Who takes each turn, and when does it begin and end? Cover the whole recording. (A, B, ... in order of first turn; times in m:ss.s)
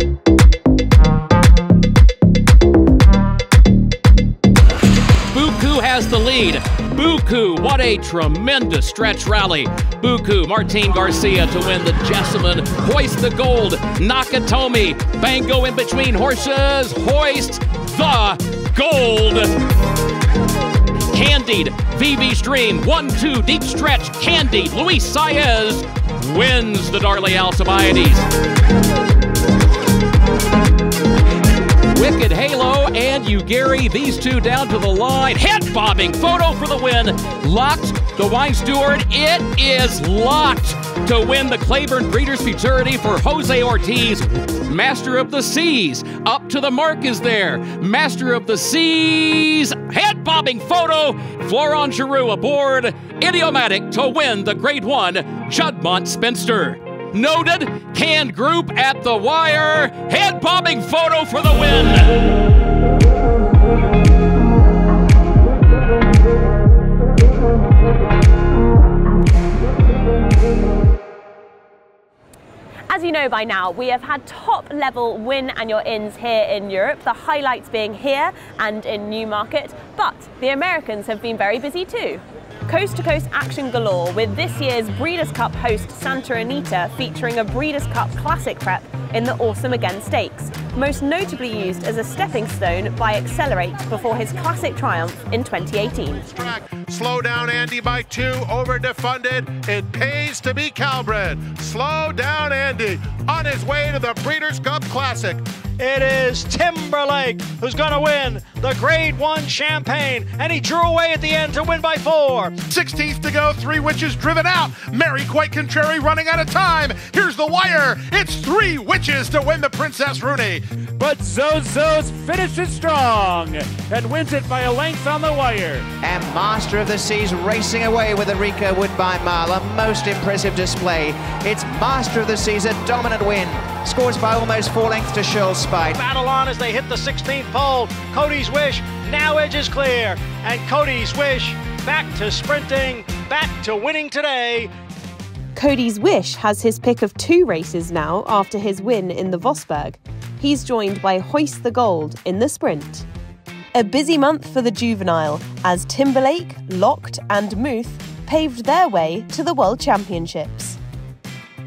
0:05.3-0:19.5 A
0:21.1-0:28.2 A
0:31.9-1:02.2 A
1:12.9-1:36.2 B
1:36.3-1:45.4 C
1:45.8-1:52.6 D
1:52.6-2:00.6 C
2:01.0-2:05.8 E
2:06.0-2:16.0 F
2:15.9-2:24.7 D
2:25.5-2:33.1 B
2:33.7-2:40.8 B